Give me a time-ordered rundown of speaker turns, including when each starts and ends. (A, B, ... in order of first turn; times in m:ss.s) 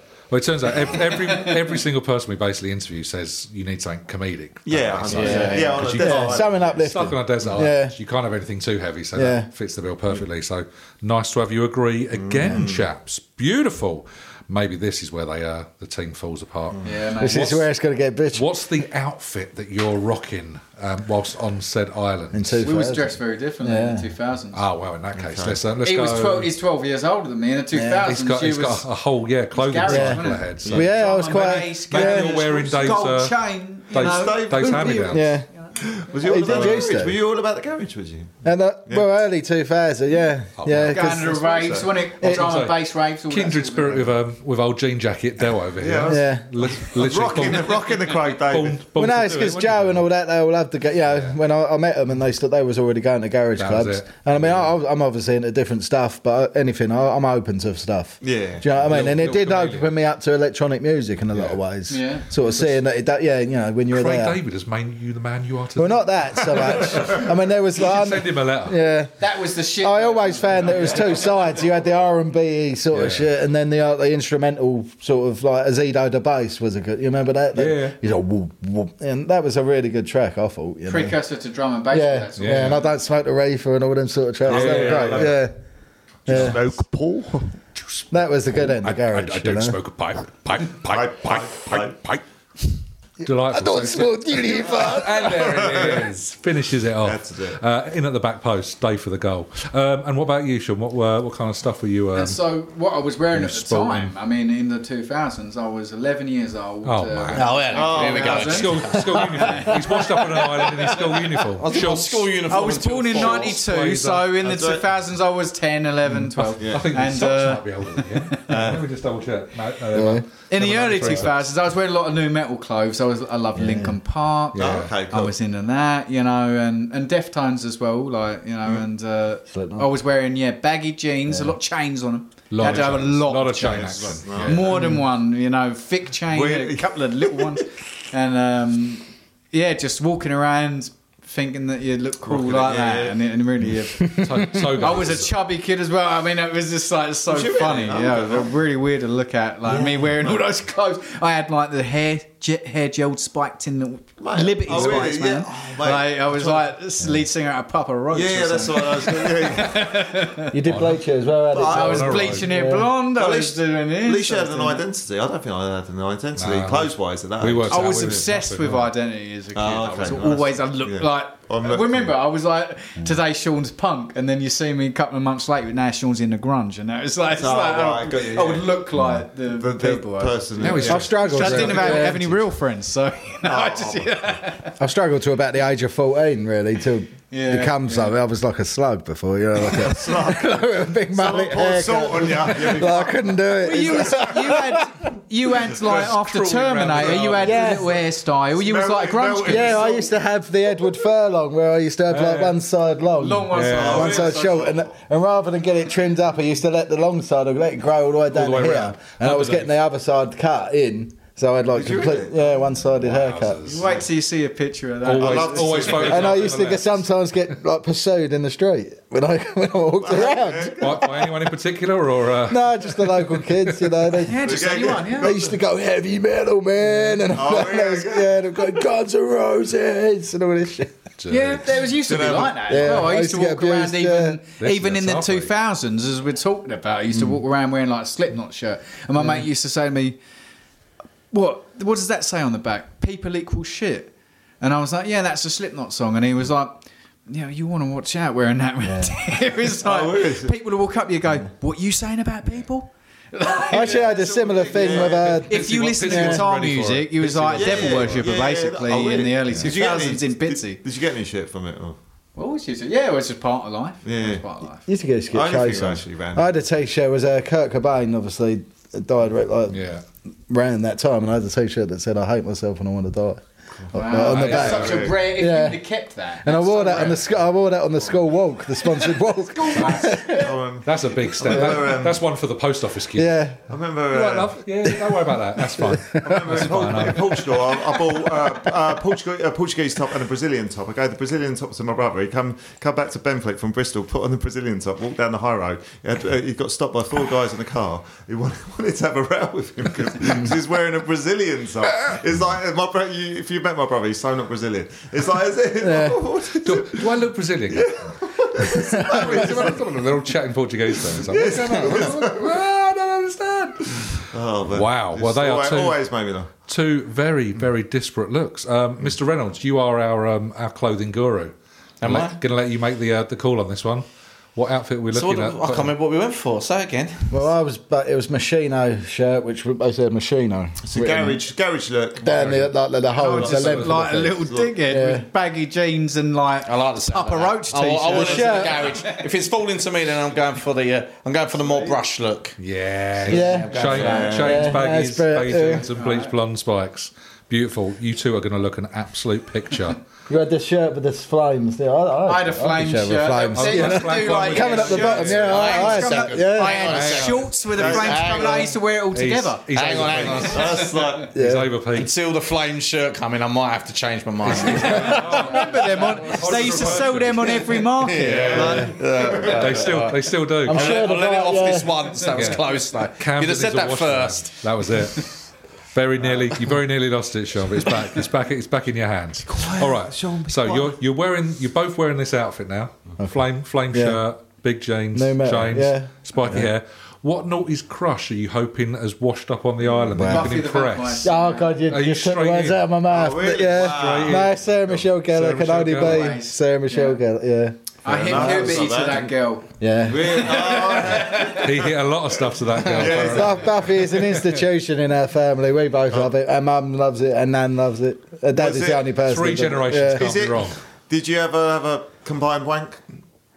0:00.3-0:17.6 A
0:00.9-0:01.8 B
0:04.6-0:06.8 C
0:05.1-0:05.8 D
0:05.2-0:05.7 B
0:05.3-0:07.9 E
0:09.1-0:09.5 E
0:12.1-0:12.9 C
0:16.8-0:17.6 B
0:17.2-0:18.4 E
0:18.3-0:22.6 A
0:22.3-0:24.1 E
0:22.6-0:24.6 B
0:24.5-0:26.5 A
0:25.1-0:25.6 C
0:25.8-0:28.8 B
0:27.7-0:28.1 E
0:28.0-0:30.9 A
0:29.5-0:36.6 B
0:29.8-0:32.4 E
0:30.6-0:30.9 C
0:31.9-0:33.4 A
0:33.9-0:35.3 A
0:33.9-0:35.0 C
0:35.0-0:35.5 E
0:35.8-0:39.1 C
0:36.2-0:37.2 E
0:38.4-0:41.3 E
0:40.6-0:41.0 A
0:40.9-0:44.1 B
0:41.1-0:41.9 C
0:42.2-0:42.5 E
0:42.2-0:50.0 A
0:45.8-0:48.8 C
0:46.0-0:46.4 E
0:49.0-1:04.4 E
0:53.6-0:54.7 A
0:58.2-0:58.6 C
0:58.8-0:59.9 A
1:01.9-1:02.3 B
1:02.5-1:02.7 A
1:03.9-1:08.8 A
1:05.8-1:09.1 E
1:09.2-1:11.6 B
1:09.8-1:21.2 E
1:12.9-1:13.3 A
1:17.5-1:18.0 A
1:20.8-1:22.9 B
1:21.9-1:25.5 E
1:22.4-1:22.8 A
1:24.4-1:25.4 C
1:24.4-1:25.4 A
1:26.2-1:27.5 C
1:26.3-1:26.6 E
1:26.3-1:26.6 A
1:27.8-1:32.2 A
1:28.1-1:29.8 E
1:30.9-1:31.9 C
1:33.2-1:35.4 E
1:33.2-1:42.4 A
1:34.6-1:36.1 C
1:37.0-1:37.6 C
1:42.1-1:51.4 B
1:43.3-1:44.1 A
1:46.8-1:47.6 A
1:47.3-1:48.9 D
1:47.7-1:48.7 C
1:48.3-1:52.3 A
1:49.2-1:49.7 E
1:51.6-1:53.6 D
1:52.5-1:58.4 B
1:53.1-1:54.3 A
1:54.4-1:54.8 C
1:56.6-1:56.9 C
1:56.6-2:01.5 A
1:58.5-1:58.8 C
1:59.9-2:00.2 E
2:00.5-2:40.5 B
2:03.5-2:04.0 E
2:04.5-2:04.9 A
2:04.6-2:05.3 C
2:09.5-2:09.9 E
2:11.3-2:11.5 E
2:12.5-2:14.8 A
2:12.6-2:12.9 C
2:13.6-2:14.9 C
2:16.3-2:17.5 C
2:22.2-2:23.2 C
2:24.0-2:24.8 E
2:24.1-2:25.3 A
2:27.3-2:28.5 C
2:29.6-2:30.4 C
2:34.2-2:36.6 C
2:38.1-2:39.9 C
2:40.5-2:42.9 E
2:40.6-2:41.0 A
2:41.5-2:42.4 C
2:41.7-2:42.5 A
2:41.7-2:44.8 B
2:43.1-2:48.2 C
2:46.4-2:48.9 A
2:47.7-3:04.8 B
2:49.5-2:52.1 C
2:57.3-2:58.8 C
2:59.0-2:59.2 E
2:59.5-3:02.0 C
3:00.6-3:02.3 A
3:00.8-3:02.2 E
3:03.4-3:04.4 C
3:04.8-3:15.1 E
3:07.3-3:08.1 B
3:09.6-3:10.6 C
3:11.1-3:14.3 C
3:13.6-3:20.0 B
3:15.7-3:17.8 A
3:17.0-3:17.3 C
3:17.4-3:17.9 E
3:18.5-3:20.1 C
3:19.4-3:33.6 E
3:22.1-3:22.6 A
3:23.2-3:24.7 B
3:23.5-3:24.1 A
3:23.8-3:24.9 C
3:28.3-3:29.7 A
3:31.7-3:32.6 C
3:33.0-3:33.9 A
3:33.6-3:36.2 B
3:35.0-3:37.0 A
3:35.2-3:36.5 C
3:36.0-3:41.1 E
3:40.0-3:41.1 C
3:40.8-3:44.1 A
3:42.5-3:50.9 E
3:44.2-3:45.5 B
3:44.4-3:45.5 C
3:47.3-3:48.7 C
3:51.2-3:51.9 A
3:51.3-4:00.2 B
3:52.0-3:53.0 C
3:52.7-3:54.4 E
3:54.6-3:55.5 A
4:01.3-4:20.8 B
4:08.8-4:09.1 E
4:09.8-4:10.5 C
4:13.7-4:16.4 E
4:13.8-4:15.4 C
4:15.2-4:18.3 A
4:17.5-4:22.0 C
4:22.4-4:24.8 B
4:24.0-4:24.4 C
4:24.9-4:29.8 E
4:25.3-4:26.5 C
4:29.7-4:30.0 A
4:30.5-4:35.8 E
4:33.9-4:37.3 B
4:34.2-4:35.1 A
4:34.3-4:35.2 C
4:36.4-4:40.5 E
4:39.5-4:40.4 B
4:39.8-4:42.2 C
4:40.8-4:43.3 A
4:41.4-4:41.9 E
4:43.1-4:43.6 E
4:43.7-4:44.6 C
4:44.1-4:47.6 A
4:44.9-4:46.6 E
4:46.2-5:10.0 C
5:05.8-5:06.2 E
5:06.6-5:08.0 A
5:08.6-5:09.6 E
5:08.9-5:16.0 A
5:11.1-5:12.6 C
5:14.3-5:16.5 C
5:16.7-5:25.9 A
5:22.0-5:22.4 D
5:25.1-5:27.3 D
5:27.3-5:31.4 E
5:30.8-5:32.7 C
5:32.2-5:35.2 E
5:33.2-5:39.2 B
5:33.4-5:33.9 A
5:34.4-5:34.7 C
5:36.6-5:42.6 D
5:38.0-5:38.8 E
5:42.6-5:50.0 A
5:43.2-5:44.7 D
5:43.3-5:45.9 E
5:43.8-5:44.7 C
5:45.8-5:46.3 B
5:50.3-5:56.9 E
5:52.2-6:01.1 B
5:53.5-5:55.9 A
5:55.4-5:58.7 D
5:56.8-5:57.5 A
5:57.7-5:58.7 C
5:59.1-6:02.1 A
5:59.7-6:00.8 D
6:00.1-6:01.4 C
6:01.3-6:01.7 E
6:01.9-6:05.4 D
6:04.4-6:07.7 A
6:04.7-6:08.8 B
6:05.1-6:05.6 E
6:08.0-6:14.5 D
6:08.3-6:10.1 C
6:08.5-6:08.9 E
6:09.4-6:11.0 A
6:10.6-6:11.9 E
6:12.3-6:15.3 A
6:15.9-6:31.3 A
6:19.5-6:21.0 C
6:23.9-6:24.2 E
6:25.1-6:26.7 E
6:30.1-6:30.6 E
6:30.2-6:31.8 B
6:31.2-6:38.9 E
6:31.9-6:32.8 A
6:33.1-6:35.0 C
6:33.6-6:34.5 A
6:35.2-6:36.4 A
6:36.0-6:37.2 B
6:38.0-6:41.8 B
6:38.0-6:39.3 C
6:39.8-6:40.4 E
6:40.0-6:43.8 C
6:41.2-6:44.6 A
6:43.0-6:50.3 E
6:48.5-6:49.1 C
6:49.2-6:50.8 A
6:50.1-6:53.0 C